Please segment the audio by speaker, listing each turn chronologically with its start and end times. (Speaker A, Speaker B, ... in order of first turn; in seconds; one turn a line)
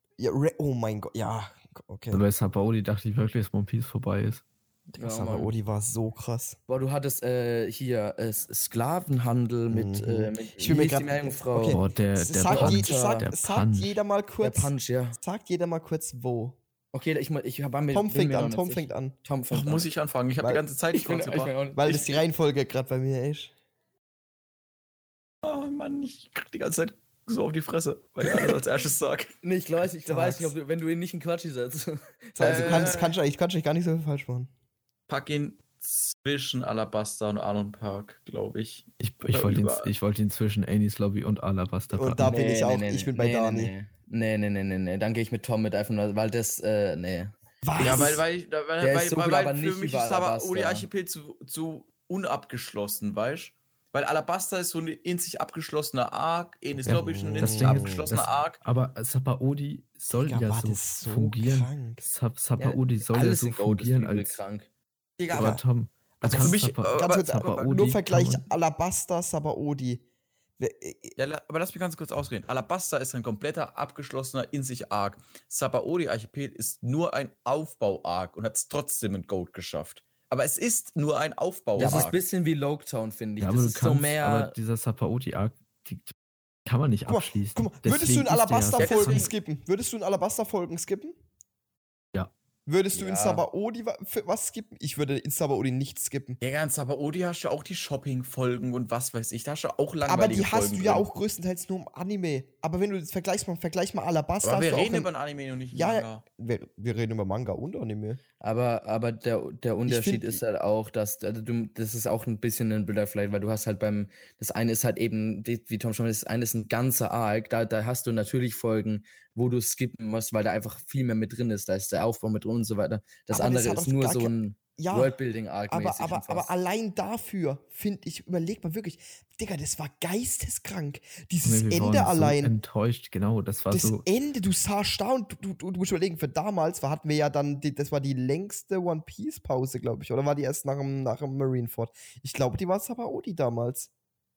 Speaker A: 0.2-2.2
Speaker B: 2.1-4.4
Speaker C: 5.0-5.5
Speaker A: 5.0-6.6
Speaker C: 6.7-11.8
Speaker A: 9.7-16.6
Speaker B: 11.7-14.0
Speaker C: 12.5-13.3
Speaker C: 14.4-15.2
Speaker C: 16.9-19.9
Speaker A: 17.9-19.2
Speaker D: 19.5-22.0
Speaker C: 20.9-22.1
Speaker A: 21.8-23.5
Speaker D: 25.4-29.3
Speaker C: 28.3-28.6
Speaker C: 29.4-33.0
Speaker A: 30.1-30.5
Speaker A: 32.4-34.5
Speaker D: 32.4-33.1
Speaker D: 35.1-39.9
Speaker B: 39.0-42.3
Speaker A: 41.9-43.7
Speaker C: 42.2-48.2
Speaker A: 47.6-48.2
Speaker D: 47.8-58.6
Speaker C: 48.8-50.9
Speaker A: 56.9-58.1
Speaker B: 56.9-64.4
Speaker A: 60.1-62.1
Speaker C: 62.6-64.7
Speaker D: 65.2-65.6
Speaker A: 65.3-65.6
Speaker B: 65.3-68.5
Speaker D: 66.2-67.7
Speaker A: 66.3-70.0
Speaker A: 70.6-71.2
Speaker D: 71.2-82.2
Speaker A: 81.8-82.1
Speaker C: 81.8-84.5
Speaker B: 83.4-86.1
Speaker B: 86.7-89.3
Speaker A: 87.1-91.2
Speaker D: 88.8-89.3
Speaker A: 92.7-96.4
Speaker C: 93.0-93.4
Speaker D: 96.4-101.0
Speaker A: 100.0-105.1
Speaker D: 104.4-106.2
Speaker A: 105.7-108.2
Speaker C: 108.4-126.5
Speaker A: 109.9-110.4
Speaker A: 123.3-125.1
Speaker A: 125.7-132.5
Speaker B: 131.4-134.1
Speaker A: 133.7-143.9